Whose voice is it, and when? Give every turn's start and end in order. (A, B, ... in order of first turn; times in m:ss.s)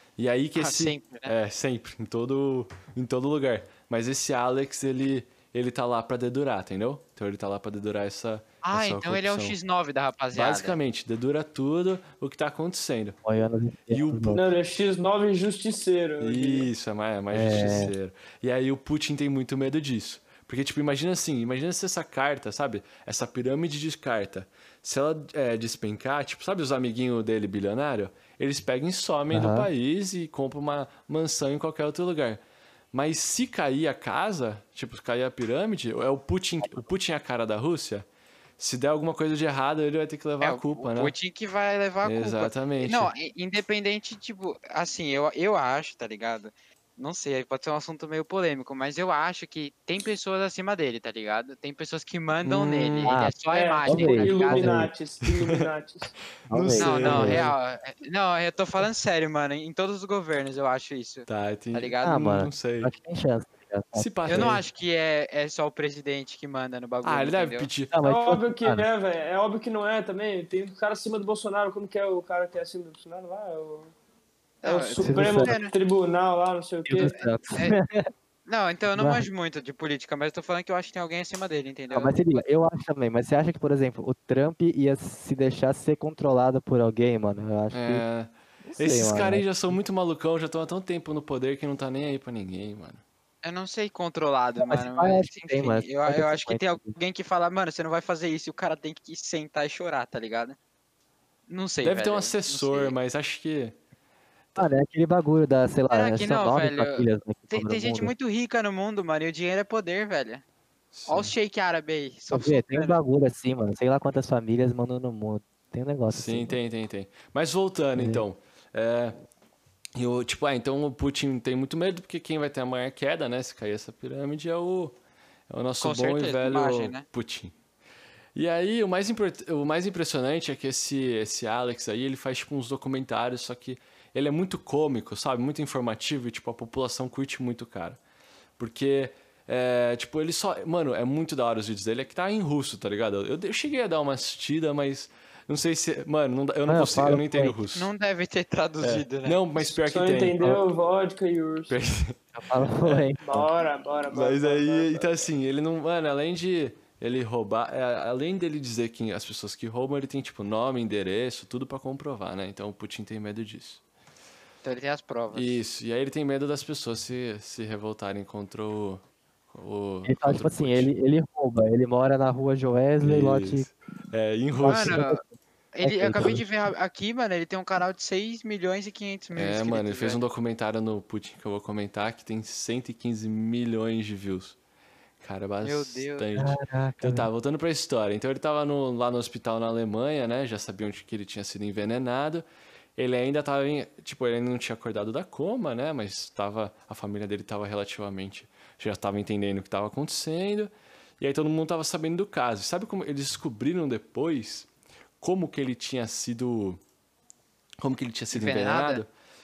0:00.2-0:09.6 A
0:00.6-0:01.3 B
0:08.6-0:10.8 B
0:10.3-0:13.2 A
0:13.2-0:14.4 C
0:13.9-0:14.4 A
0:14.3-0:16.7 D
0:16.2-0:32.4 A
0:17.3-0:17.9 C
0:29.3-0:29.7 C
0:32.9-0:38.0 A
0:38.6-0:41.1 A
0:40.4-0:54.8 B
0:42.0-0:43.1 A
0:52.4-0:53.2 A
0:53.0-0:53.3 C
0:53.5-0:56.1 D
0:53.8-0:54.9 C
0:55.2-0:55.6 A
0:56.5-0:57.5 C
0:56.5-0:57.5 A
0:56.8-1:02.2 B
1:01.3-1:02.9 A
1:02.0-1:04.6 C
1:03.9-1:04.6 A
1:04.3-1:07.7 B
1:07.0-1:07.9 A
1:07.9-1:08.8 C
1:08.0-1:13.9 D
1:14.6-1:15.7 B
1:14.6-1:17.1 D
1:15.0-1:15.5 C
1:16.8-1:18.0 C
1:17.0-1:17.8 B
1:18.4-1:22.4 B
1:18.9-1:19.2 C
1:21.9-1:28.0 C
1:27.7-1:33.0 A
1:28.7-1:29.7 C
1:33.4-1:40.6 B
1:34.6-1:36.9 C
1:41.5-1:42.9 B
1:41.8-1:43.8 A
1:44.6-1:48.1 C
1:45.9-1:50.4 B
1:50.9-1:51.3 A
1:51.1-1:53.0 B
1:52.3-1:56.6 C
1:56.1-1:59.2 A
1:58.0-1:58.2 C
2:00.0-2:04.9 A
2:05.5-2:07.5 A
2:05.8-2:07.0 B
2:08.3-2:18.0 A
2:18.6-2:27.9 A
2:26.7-2:27.6 C
2:27.7-2:29.4 B
2:28.8-2:30.7 A
2:29.8-2:31.8 D
2:31.7-2:33.4 A
2:32.4-2:33.2 C
2:33.2-2:35.3 D
2:34.1-2:43.8 A
2:44.6-2:45.6 B
2:45.3-2:49.0 A
2:49.5-2:50.9 A
2:50.0-2:53.7 C
2:53.0-2:55.0 A
2:54.6-2:55.2 C
2:54.6-2:55.2 B
2:55.7-3:00.2 B
2:55.8-2:56.4 C
2:59.3-3:04.6 A
3:05.2-3:12.4 A
3:05.6-3:06.2 B
3:06.4-3:07.3 C
3:13.0-3:24.7 A
3:25.2-3:26.8 A
3:27.8-3:29.1 A
3:28.3-3:29.0 B